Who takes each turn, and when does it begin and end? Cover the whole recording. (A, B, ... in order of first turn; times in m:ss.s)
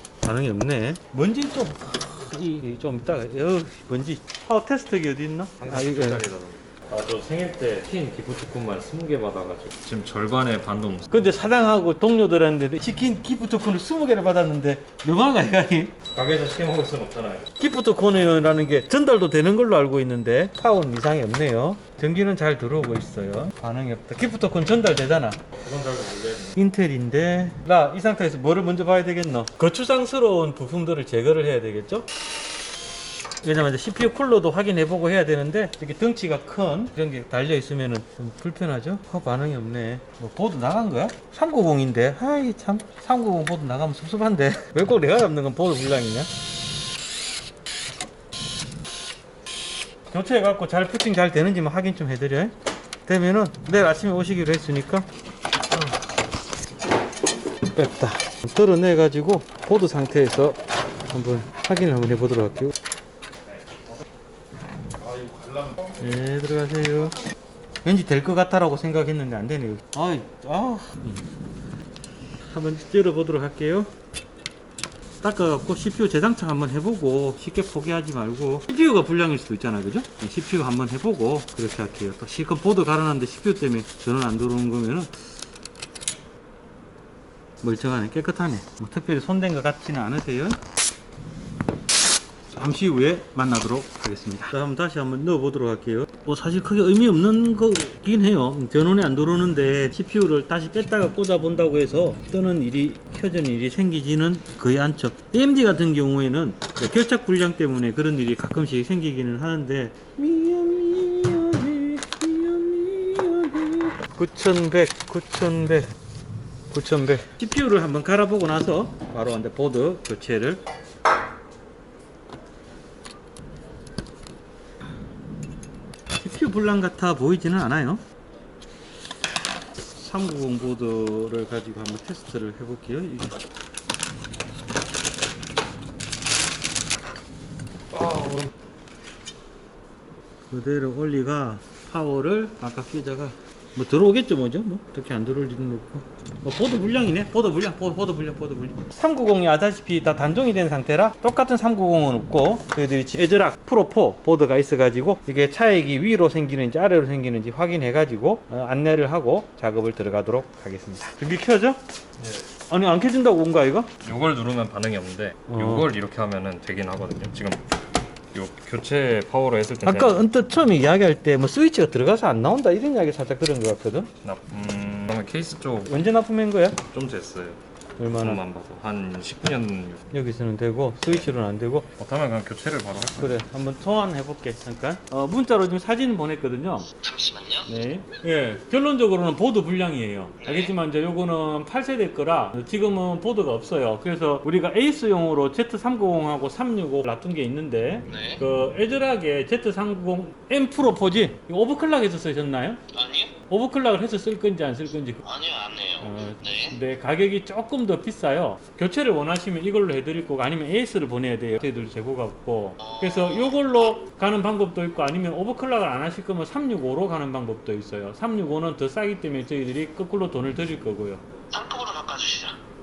0:00.2-0:06.2 A
0:05.6-0:11.1 B
0:11.1-0:16.0 A
0:16.1-0:17.4 B
0:17.6-0:25.4 A
0:25.6-0:26.6 B
0:26.5-0:32.1 A
0:33.4-0:46.3 A
0:50.1-0:52.5 A
0:53.0-0:55.1 A
0:55.7-0:56.0 A
0:57.6-1:02.7 A
1:05.0-1:05.9 B
1:06.0-1:07.2 A
1:07.8-1:11.2 A
1:12.5-1:13.9 A
1:15.2-1:25.1 A
1:27.6-1:30.6 A
1:32.5-1:55.8 A
1:56.7-2:00.6 A
2:06.2-2:08.0 A
2:09.9-2:13.4 A
2:17.9-2:18.5 A
2:20.5-2:41.8 A
2:42.2-2:42.5 B
2:42.7-2:43.9 A
2:44.0-2:47.6 B
2:45.5-2:45.9 A
2:48.3-2:50.2 B
2:49.8-2:54.1 A
2:54.2-2:55.9 B
2:55.8-2:56.8 A
2:56.9-2:57.6 B
2:58.0-2:58.4 A
2:58.2-3:00.0 B
3:00.1-3:01.9 A
3:02.0-3:03.3 B
3:03.2-3:06.9 A
3:07.0-3:07.7 C
3:07.7-3:22.8 A
3:10.4-3:10.7 C
3:18.1-3:18.4 C
3:22.9-3:23.3 C
3:23.5-3:25.2 A
3:25.2-3:26.7 C
3:26.0-3:41.2 A
3:32.8-3:33.7 C
3:41.5-3:42.6 C